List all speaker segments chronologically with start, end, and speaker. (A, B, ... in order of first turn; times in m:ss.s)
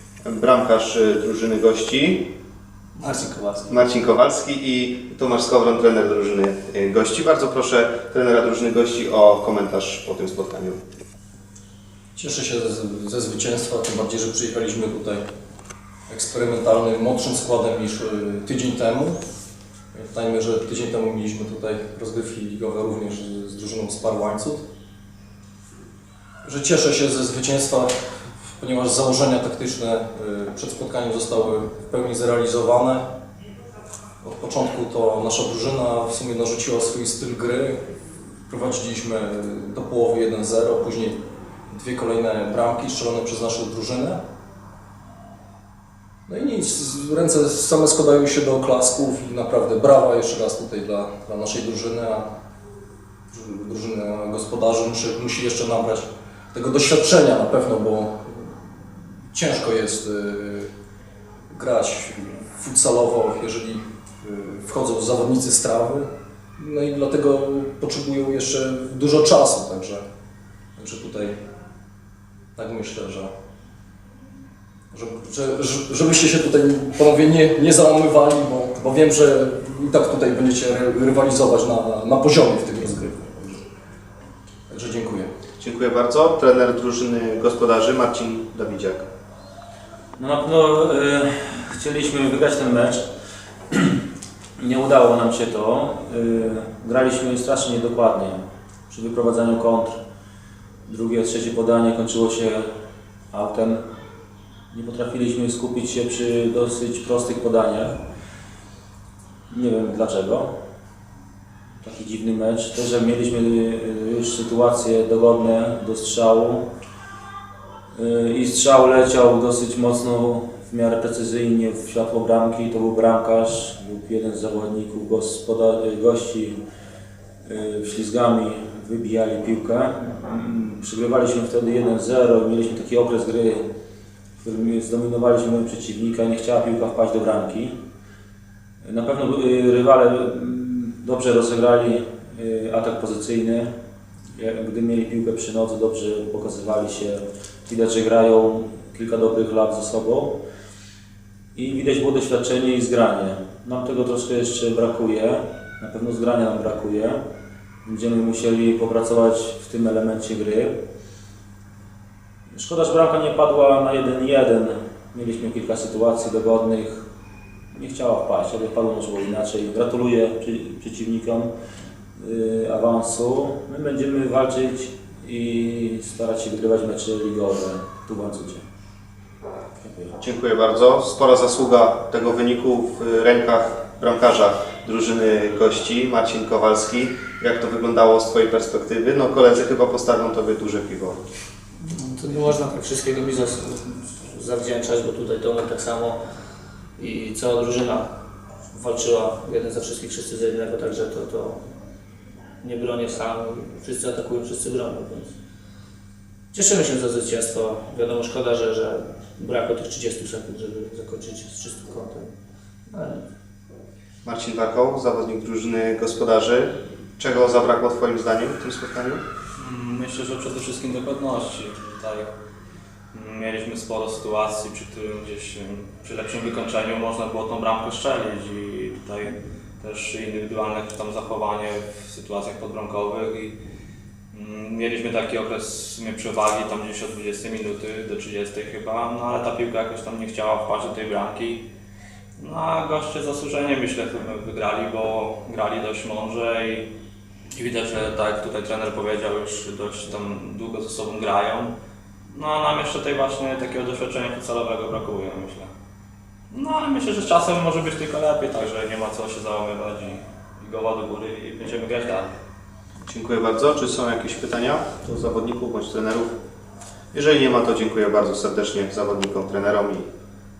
0:00.2-0:02.3 A
0:03.0-0:03.6 B
0:03.7-0:10.8 A
0:12.1-0:15.2 B
0:16.1-0:19.2 B
0:19.9-0:24.6 B
0:26.4-0:27.9 B
0:28.6-0:33.0 B
0:34.2-0:37.8 B
0:38.5-0:44.2 B
0:46.3-0:52.3 B
0:53.3-0:58.5 B
0:59.3-1:00.7 B
1:01.5-1:10.0 B
1:10.8-1:11.3 B
1:12.6-1:13.3 B
1:14.9-1:23.6 B
1:24.7-1:25.3 B
1:25.6-1:29.0 A
1:30.2-1:33.0 C
1:33.7-1:34.0 C
1:34.6-1:40.0 C
1:40.8-1:42.7 C
1:43.3-1:43.8 C
1:44.7-1:48.0 C
1:49.5-1:50.5 C
1:51.8-1:56.6 C
1:57.9-2:06.6 C
2:07.4-2:13.6 C
2:14.4-2:17.7 C
2:18.8-2:23.7 C
2:24.3-2:30.4 C
2:31.5-2:37.2 C
2:37.8-2:40.7 C
2:42.5-2:47.0 C
2:47.7-2:51.5 C
2:52.2-2:58.6 C
2:59.8-3:00.1 C
3:00.2-3:11.2 A
3:11.8-3:16.2 D
3:17.0-3:18.1 D
3:18.7-3:21.6 D
3:22.6-3:25.4 D
3:26.5-3:32.3 D
3:32.9-3:33.2 D
3:34.2-3:39.2 A
3:39.6-3:42.3 E
3:43.1-3:53.6 E
3:54.3-4:01.7 E
4:02.4-4:06.9 E
4:07.5-4:11.7 E
4:12.3-4:15.7 E
4:16.5-4:22.3 E
4:23.0-4:26.3 A
4:27.1-4:30.1 A